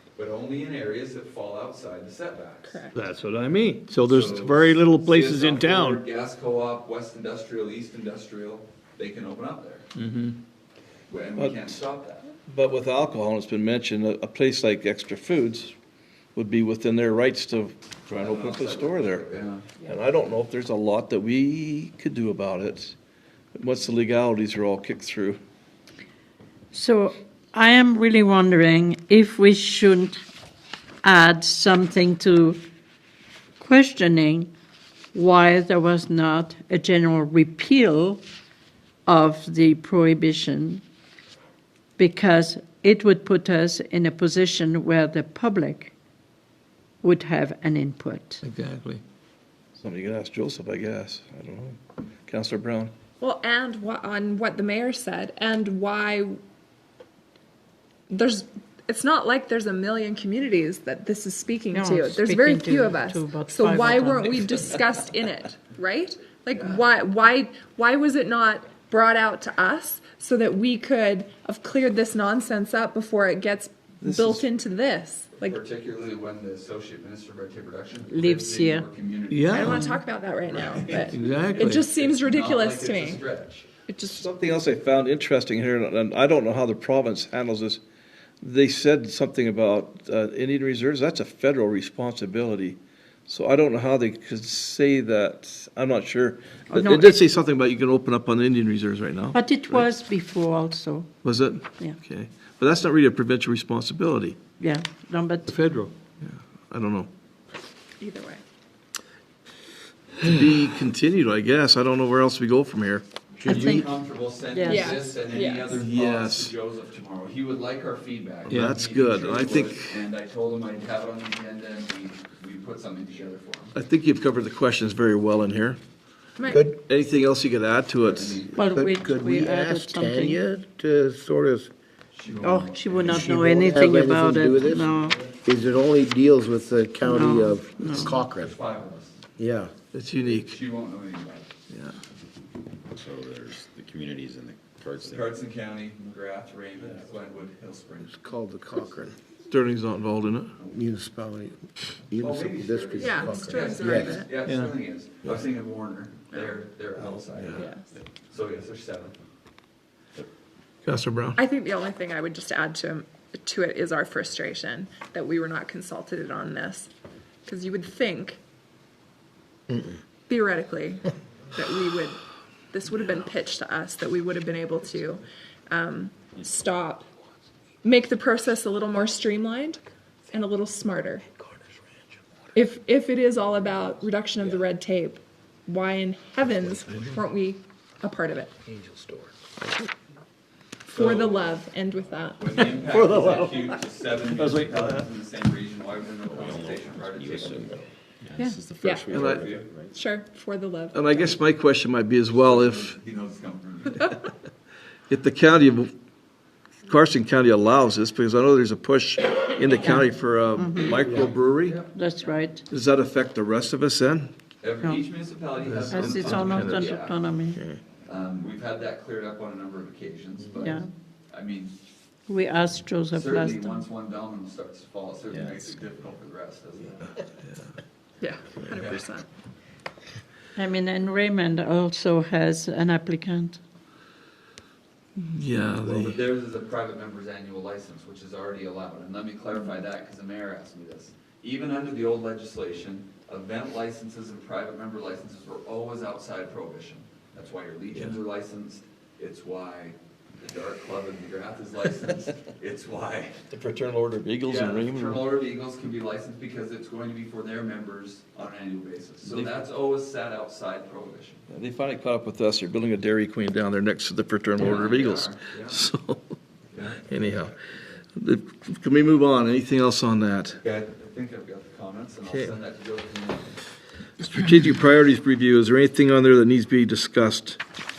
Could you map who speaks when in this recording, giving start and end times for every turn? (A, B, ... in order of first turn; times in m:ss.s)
0:00.2-0:02.8 A
0:02.6-0:03.0 B
0:03.0-0:06.0 C
0:04.1-0:09.8 A
0:10.0-0:10.4 C
0:11.1-0:12.3 A
0:11.4-0:11.8 D
0:12.5-0:15.7 D
0:16.4-0:19.3 D
0:18.1-0:19.7 A
0:19.8-0:23.0 D
0:23.6-0:25.4 D
0:26.7-0:30.2 E
0:31.0-0:32.6 E
0:33.6-0:34.5 E
0:35.1-0:38.2 E
0:39.1-0:40.8 E
0:42.0-0:45.9 E
0:47.0-0:48.4 E
0:48.4-0:49.0 C
0:49.8-0:52.9 D
0:53.2-0:56.4 B
0:58.1-1:15.6 B
1:01.7-1:04.4 E
1:06.5-1:06.8 A
1:14.0-1:14.4 D
1:15.4-1:19.7 A
1:18.1-1:18.9 E
1:19.3-1:19.8 C
1:19.5-1:23.2 B
1:19.6-1:20.0 E
1:20.5-1:23.7 A
1:21.1-1:21.9 C
1:23.9-1:24.3 B
1:24.1-1:27.8 D
1:28.4-1:39.9 D
1:36.7-1:37.2 E
1:39.3-1:41.1 E
1:41.2-1:44.4 D
1:44.6-1:45.6 E
1:45.5-1:45.9 C
1:46.2-1:47.1 D
1:48.0-1:48.4 B
1:50.2-1:53.0 D
1:53.4-2:03.7 A
1:53.4-1:54.0 E
1:54.5-1:55.1 E
1:54.7-1:55.7 B
1:55.7-1:56.5 D
1:58.4-2:00.0 D
2:03.7-2:05.8 D
2:06.4-2:06.7 B
2:06.5-2:06.7 F
2:06.7-2:08.4 D
2:08.0-2:08.8 A
2:08.5-2:10.4 E
2:08.7-2:11.7 F
2:12.1-2:13.3 A
2:12.4-2:15.2 E
2:13.0-2:18.6 F
2:14.9-2:15.3 A
2:17.0-2:18.2 E
2:17.9-2:19.2 A
2:19.4-2:19.7 F
2:19.9-2:20.6 D
2:20.2-2:21.5 A
2:21.7-2:22.0 D
2:22.9-2:25.4 G
2:25.0-2:28.1 A
2:28.1-2:29.1 F
2:29.5-2:30.5 D
2:30.6-2:34.3 F
2:32.2-2:37.7 A
2:33.0-2:34.3 B
2:34.4-2:34.7 C
2:37.6-2:37.9 B
2:38.3-2:39.2 A
2:40.8-2:41.4 D
2:41.4-2:46.9 B
2:47.5-2:48.4 B
2:50.3-2:52.2 B
2:52.7-2:57.1 B
2:57.8-3:01.2 B
3:02.6-3:08.5 B
3:06.6-3:07.0 F
3:08.7-3:09.3 F
3:10.9-3:11.6 A
3:10.9-3:12.6 B
3:12.4-3:17.9 A
3:12.8-3:15.0 C
3:16.3-3:20.0 G
3:18.8-3:19.1 B
3:19.1-3:19.6 D
3:19.2-3:19.7 A
3:19.9-3:21.4 B
3:20.9-3:23.0 D
3:22.3-3:24.2 A
3:25.1-3:25.9 D
3:26.9-3:31.8 D
3:30.6-3:31.0 E
3:30.9-3:31.3 F
3:30.9-3:32.4 A
3:32.0-3:32.6 E
3:32.7-3:34.3 D
3:34.6-3:37.3 A
3:35.6-3:37.0 D
3:35.9-3:37.6 E
3:38.1-3:41.8 A
3:40.6-3:40.9 E
3:42.3-3:43.9 E
3:43.1-3:47.2 A
3:48.2-3:49.3 B
3:48.7-3:49.0 A
3:50.6-3:53.6 E
3:55.2-3:56.2 D
3:55.9-4:13.4 A
4:07.9-4:08.2 D
4:13.5-4:15.3 D
4:14.4-4:21.4 A
4:19.2-4:19.5 D
4:21.5-4:26.3 D
4:24.6-4:25.8 A
4:26.7-4:27.3 A
4:27.0-4:27.6 D
4:28.2-4:30.6 D
4:30.6-4:33.5 A
4:32.3-4:32.5 D
4:34.2-4:37.6 D